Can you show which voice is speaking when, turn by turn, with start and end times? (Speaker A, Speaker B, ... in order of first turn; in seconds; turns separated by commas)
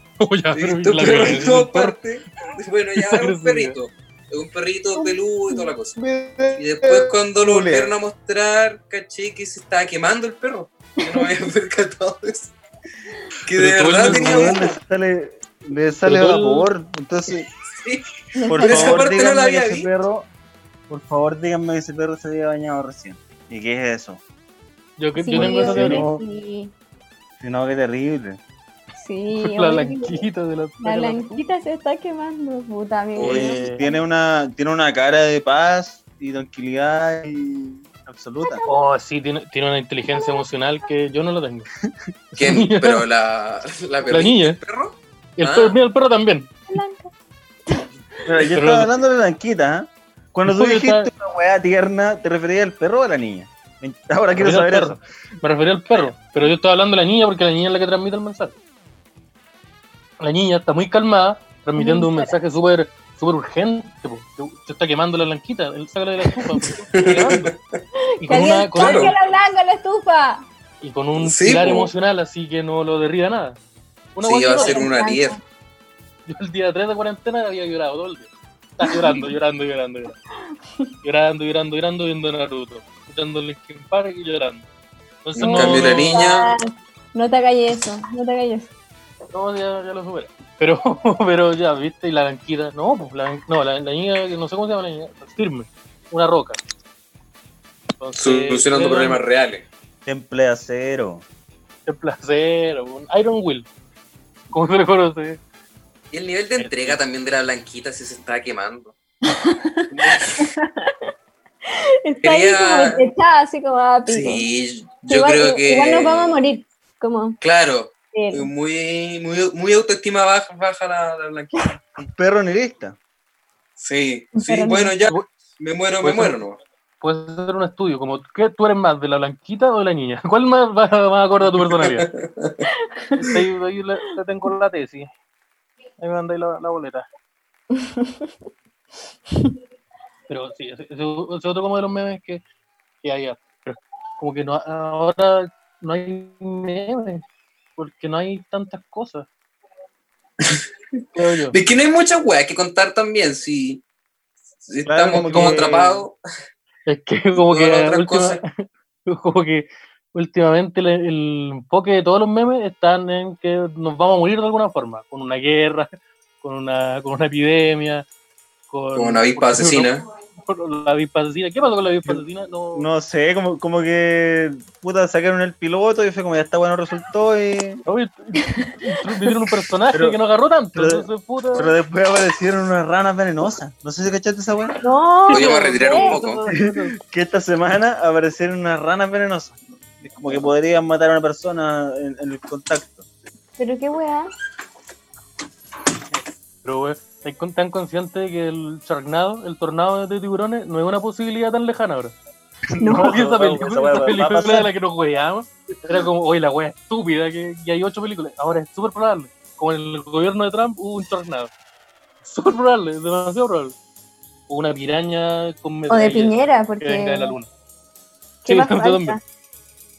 Speaker A: 0.2-2.0, Speaker B: 0.5-6.0, Speaker A: 3.0-3.8, Speaker C: 5.0-5.7, Speaker D: 6.0-7.9, Speaker B: 6.5-12.5, Speaker C: 11.0-11.3, Speaker B: 13.4-14.6, Speaker A: 13.5-14.6, Speaker D: 14.0-17.5, Speaker A: 16.0-16.7, Speaker B: 17.8-19.9, Speaker C: 18.4-19.1, Speaker D: 18.5-20.3, Speaker D: 20.9-24.2, Speaker A: 25.0-26.1, Speaker C: 25.2-26.7, Speaker D: 25.3-26.2, Speaker D: 27.4-28.4, Speaker C: 29.0-30.3, Speaker A: 29.4-31.4, Speaker C: 30.8-34.0, Speaker B: 33.2-33.6, Speaker D: 33.2-38.6, Speaker C: 38.4-38.8, Speaker A: 38.7-41.7, Speaker C: 40.1-40.5, Speaker A: 42.4-43.0, Speaker B: 42.4-45.8, Speaker A: 44.1-44.6, Speaker A: 45.4-46.5, Speaker C: 46.7-47.1, Speaker C: 47.7-48.2, Speaker D: 48.3-55.0, Speaker A: 48.5-48.9, Speaker A: 50.5-51.1, Speaker A: 54.4-58.6, Speaker A: 60.2-67.5, Speaker C: 61.8-62.4, Speaker B: 66.9-67.8, Speaker C: 68.0-70.5, Speaker A: 68.2-69.2, Speaker B: 68.8-69.1, Speaker A: 70.8-73.6, Speaker B: 71.2-71.9, Speaker A: 74.2-74.9, Speaker B: 74.2-75.4, Speaker C: 74.6-75.4, Speaker A: 76.3-80.2, Speaker C: 78.8-79.3, Speaker A: 81.0-84.7, Speaker A: 85.2-86.3, Speaker B: 85.3-86.5, Speaker C: 85.4-88.7, Speaker A: 89.3-96.6, Speaker A: 98.0-99.2, Speaker B: 98.2-99.7, Speaker D: 100.1-101.2, Speaker A: 101.9-103.7, Speaker A: 104.5-105.4, Speaker B: 106.1-108.9, Speaker A: 106.6-107.0, Speaker C: 109.3-111.1, Speaker B: 109.9-110.5, Speaker C: 111.7-114.5, Speaker B: 112.2-113.0, Speaker B: 114.1-116.4, Speaker C: 115.1-117.4, Speaker B: 117.4-121.8, Speaker C: 118.1-118.5, Speaker D: 122.0-123.0, Speaker B: 123.8-126.6, Speaker C: 124.3-125.0, Speaker A: 125.1-125.3, Speaker A: 126.0-126.4, Speaker A: 127.0-132.1, Speaker B: 131.9-132.6, Speaker C: 132.8-133.1, Speaker A: 133.2-135.1, Speaker A: 136.0-137.1, Speaker C: 137.8-138.1, Speaker A: 140.3-142.4, Speaker A: 143.0-147.2, Speaker A: 147.8-149.3, Speaker A: 151.2-151.6, Speaker B: 151.5-153.8, Speaker B: 154.6-156.2, Speaker D: 154.9-156.0, Speaker A: 155.1-155.7, Speaker A: 156.9-165.9, Speaker B: 157.4-158.4, Speaker A: 166.4-168.1, Speaker A: 168.7-172.9, Speaker B: 168.9-170.1, Speaker D: 172.1-177.8, Speaker A: 177.9-181.7, Speaker D: 179.9-180.2, Speaker D: 180.7-184.7, Speaker C: 184.8-186.2, Speaker A: 185.3-187.0, Speaker B: 185.3-186.4, Speaker D: 186.5-193.1, Speaker C: 193.6-194.3, Speaker A: 196.6-202.2, Speaker D: 202.8-204.7, Speaker A: 202.9-211.5, Speaker A: 212.2-213.8, Speaker A: 214.5-217.5, Speaker C: 215.9-217.4, Speaker A: 218.4-219.2, Speaker C: 218.4-219.2